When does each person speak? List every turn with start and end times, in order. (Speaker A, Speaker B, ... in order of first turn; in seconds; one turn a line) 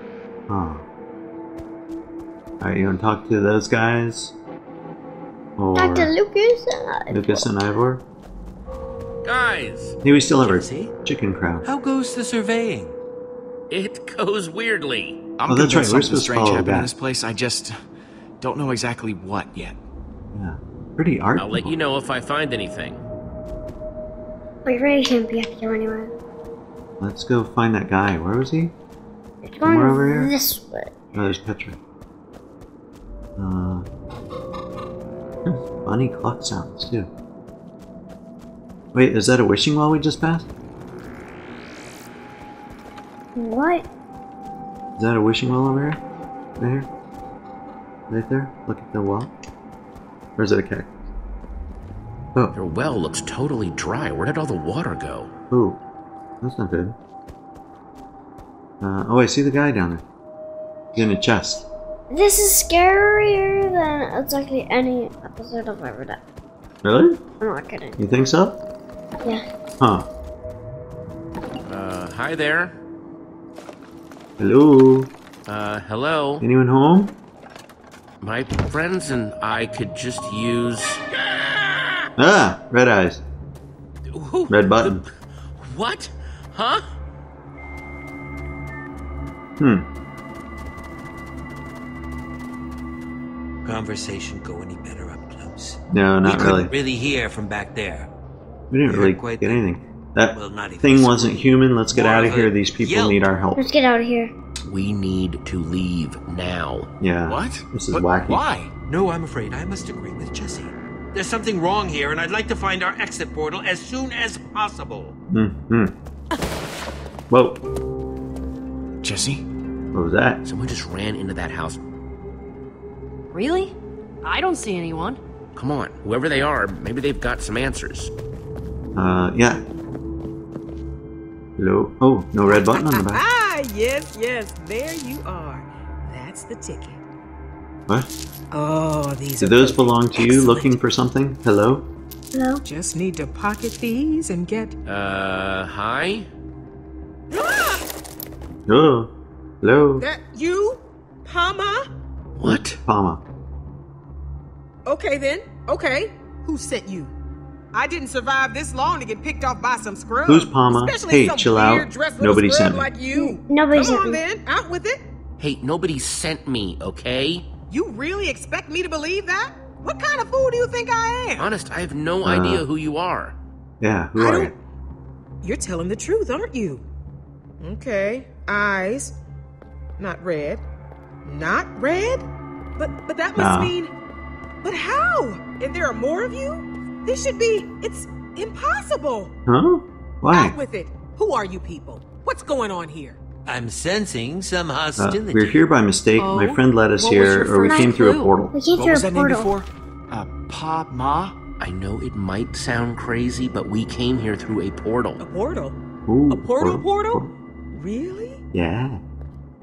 Speaker A: 0.5-0.8
Speaker A: 2.6-4.3
Speaker A: 5.6-6.1
Speaker B: 5.8-7.5
Speaker A: 7.1-8.0
Speaker C: 9.2-10.0
Speaker A: 10.0-11.7
Speaker D: 10.4-10.9
Speaker D: 11.6-12.9
Speaker C: 13.7-15.2
Speaker E: 15.4-17.7
Speaker A: 15.5-16.9
Speaker E: 18.4-19.8
Speaker A: 20.3-21.8
Speaker C: 21.4-23.0
Speaker B: 24.7-26.1
Speaker A: 27.0-28.8
Speaker B: 29.4-30.9
Speaker A: 29.6-30.3
Speaker A: 31.1-31.8
Speaker A: 33.4-33.9
Speaker A: 35.5-37.1
Speaker A: 38.9-40.5
Speaker B: 43.4-43.9
Speaker A: 45.0-46.0
Speaker A: 46.6-46.9
Speaker A: 48.1-49.3
Speaker A: 50.4-50.9
Speaker C: 52.5-55.3
Speaker A: 55.5-55.8
Speaker A: 56.4-57.0
Speaker A: 58.8-60.0
Speaker A: 61.0-61.6
Speaker B: 62.1-66.2
Speaker A: 66.8-67.2
Speaker B: 67.4-68.0
Speaker A: 68.0-68.6
Speaker A: 69.8-70.1
Speaker C: 71.7-72.8
Speaker A: 74.4-75.1
Speaker C: 75.5-76.5
Speaker A: 76.4-77.2
Speaker C: 78.2-82.0
Speaker A: 82.2-83.2
Speaker C: 84.1-86.8
Speaker A: 84.5-85.0
Speaker A: 89.6-89.9
Speaker D: 93.7-98.1
Speaker A: 95.9-96.7
Speaker A: 98.7-103.7
Speaker D: 98.9-99.7
Speaker D: 100.3-103.2
Speaker B: 103.6-104.3
Speaker C: 104.7-106.9
Speaker A: 107.0-108.4
Speaker E: 107.3-108.7
Speaker D: 108.9-115.1
Speaker A: 115.3-115.9
Speaker A: 117.3-117.6
Speaker E: 119.0-119.4
Speaker A: 119.9-120.4
Speaker C: 120.4-121.8
Speaker F: 123.3-125.2
Speaker C: 125.5-128.1
Speaker A: 129.0-129.6
Speaker A: 131.6-133.2
Speaker G: 132.4-137.0
Speaker G: 138.5-140.7
Speaker A: 139.4-141.9
Speaker B: 142.3-142.7
Speaker G: 142.7-144.8
Speaker C: 144.9-146.3
Speaker G: 147.3-147.8
Speaker A: 148.7-149.1
Speaker A: 149.6-150.0
Speaker G: 150.0-151.9
Speaker C: 152.4-152.8
Speaker A: 152.4-153.2
Speaker G: 154.9-157.1
Speaker G: 157.7-165.0
Speaker A: 160.3-162.9
Speaker B: 163.1-164.3
Speaker C: 165.4-167.5
Speaker G: 167.7-171.5
Speaker C: 171.4-173.4
Speaker A: 172.2-172.7
Speaker A: 173.8-174.5
Speaker G: 174.2-174.5
Speaker G: 175.4-176.8
Speaker G: 177.6-179.2
Speaker G: 180.0-180.6
Speaker G: 181.2-182.3
Speaker G: 182.8-183.9
Speaker A: 183.4-183.7
Speaker G: 184.6-189.3
Speaker A: 189.5-190.5
Speaker G: 190.3-193.2
Speaker D: 193.5-195.7
Speaker A: 195.0-198.6
Speaker F: 196.2-198.3
Speaker B: 198.5-199.5
Speaker E: 198.8-201.3
Speaker C: 201.6-205.2
Speaker G: 205.2-205.8
Speaker A: 206.1-207.3
Speaker G: 206.3-208.4
Speaker A: 208.5-209.0